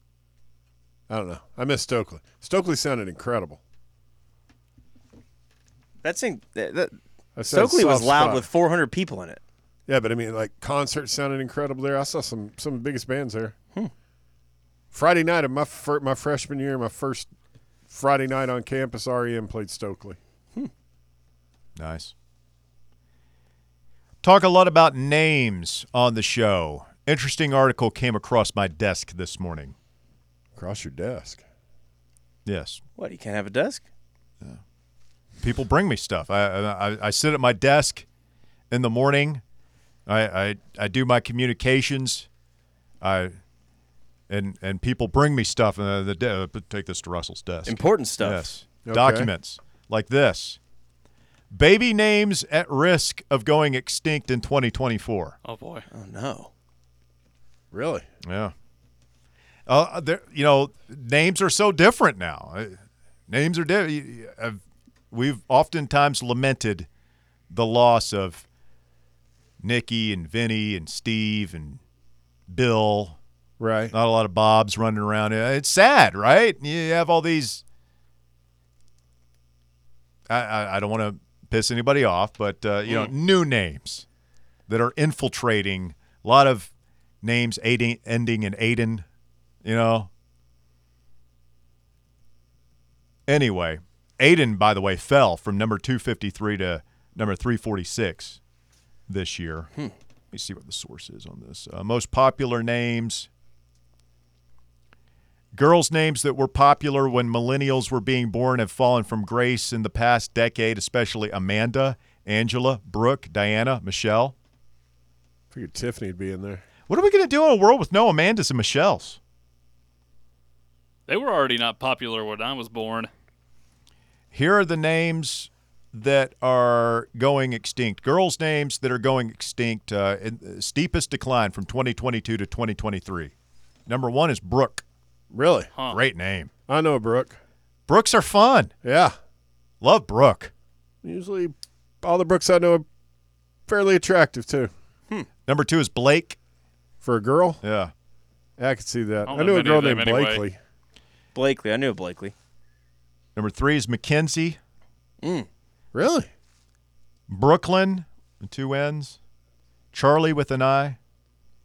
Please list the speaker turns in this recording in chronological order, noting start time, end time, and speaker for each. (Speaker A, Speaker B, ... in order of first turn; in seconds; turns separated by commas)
Speaker A: 1.1-3.6, Speaker B: 6.0-6.9, Speaker A: 7.3-8.5, Speaker B: 7.5-9.4, Speaker A: 9.9-13.5, Speaker A: 14.9-17.3, Speaker A: 17.9-20.2, Speaker C: 21.8-22.1, Speaker C: 24.2-29.7, Speaker A: 30.6-31.4, Speaker C: 32.5-32.8, Speaker B: 33.0-33.8, Speaker C: 35.4-38.0, Speaker C: 38.7-39.4, Speaker C: 40.0-42.3, Speaker C: 43.0-43.4, Speaker C: 44.3-50.6, Speaker B: 47.7-48.5, Speaker A: 48.9-49.3, Speaker C: 51.5-55.4, Speaker D: 55.4-55.9, Speaker B: 55.9-56.5, Speaker A: 57.7-58.0, Speaker C: 58.2-58.5, Speaker C: 59.7-64.6, Speaker C: 65.1-66.9, Speaker C: 67.5-68.4, Speaker C: 69.6-71.8, Speaker C: 72.5-73.2, Speaker A: 73.6-73.9, Speaker C: 73.9-77.6, Speaker C: 80.3-84.0, Speaker C: 84.7-86.7, Speaker C: 87.2-89.0, Speaker C: 89.6-90.1, Speaker C: 93.3-98.4, Speaker C: 99.1-99.7, Speaker C: 100.3-103.3, Speaker C: 105.5-114.3, Speaker A: 115.5-116.6, Speaker C: 116.9-119.2, Speaker D: 121.1-123.1, Speaker C: 124.3-133.3, Speaker C: 133.9-134.8, Speaker A: 135.3-135.7, Speaker C: 135.9-136.5, Speaker A: 136.7-137.4, Speaker C: 137.9-138.7, Speaker A: 138.8-139.1, Speaker C: 139.8-140.5, Speaker A: 141.0-142.8, Speaker A: 143.7-144.7, Speaker C: 145.5-146.4, Speaker A: 147.0-147.6, Speaker C: 147.6-147.9, Speaker A: 148.6-150.6, Speaker D: 149.2-150.4, Speaker B: 151.3-152.3, Speaker C: 153.3-154.6, Speaker B: 155.2-155.5, Speaker A: 155.9-156.3, Speaker C: 157.3-159.2, Speaker C: 159.9-161.0